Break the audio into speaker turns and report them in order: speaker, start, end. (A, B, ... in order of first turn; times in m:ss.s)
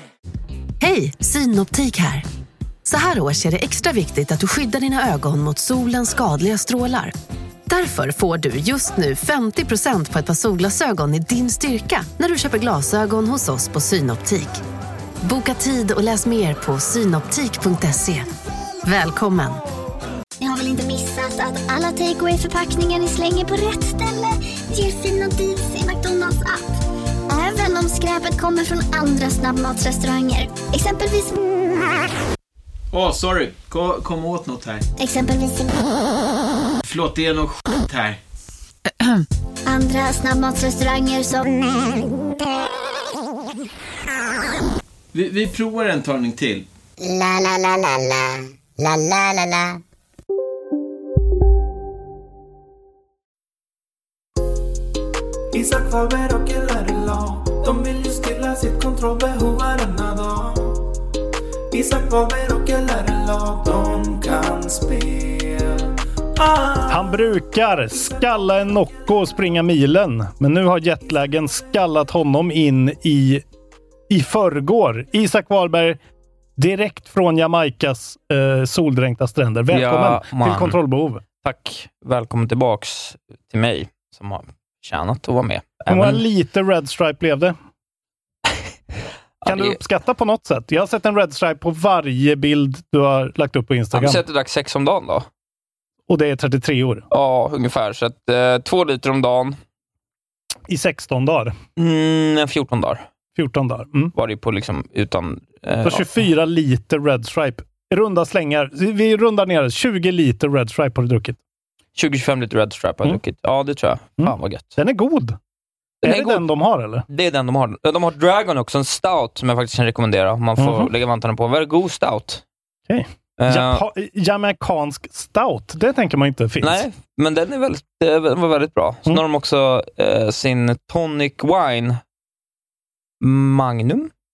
0:00.8-0:02.2 A
0:02.8-0:07.2 A
0:07.7-0:14.6 A
0:15.2-0:18.3 A
0:18.8-0:19.6 A
0:20.4-0:26.7 B
0:27.3-0:31.5 B
0:32.9-0:34.8 C
0:35.0-0:35.9 B
0:36.8-0:38.2 C
0:39.6-0:41.9 B
0:45.1-0:46.6 C
0:47.0-0:49.8 D
0:55.5-0:56.0 E
0:56.4-1:00.7 F
1:01.9-1:05.7 F
1:06.8-1:13.4 E
1:14.1-1:16.0 E
1:16.6-1:21.2 E
1:19.7-1:20.8 G
1:21.4-1:26.2 G
1:25.9-1:27.6 E
1:29.4-1:29.8 G
1:29.4-1:34.2 E
1:33.9-1:35.3 G
1:36.1-1:37.0 E
1:37.1-1:39.6 G
1:40.7-1:41.6 E
1:41.8-1:43.0 G
1:43.4-1:44.1 E
1:44.1-1:46.2 G
1:45.8-1:51.4 E
1:52.0-1:54.7 G
1:54.2-1:55.4 E
1:56.0-1:57.0 E
1:56.0-1:56.4 G
1:57.1-2:02.4 G
2:00.6-2:00.9 E
2:02.9-2:06.8 E
2:03.4-2:03.8 G
2:06.6-2:12.0 G
2:13.2-2:14.1 G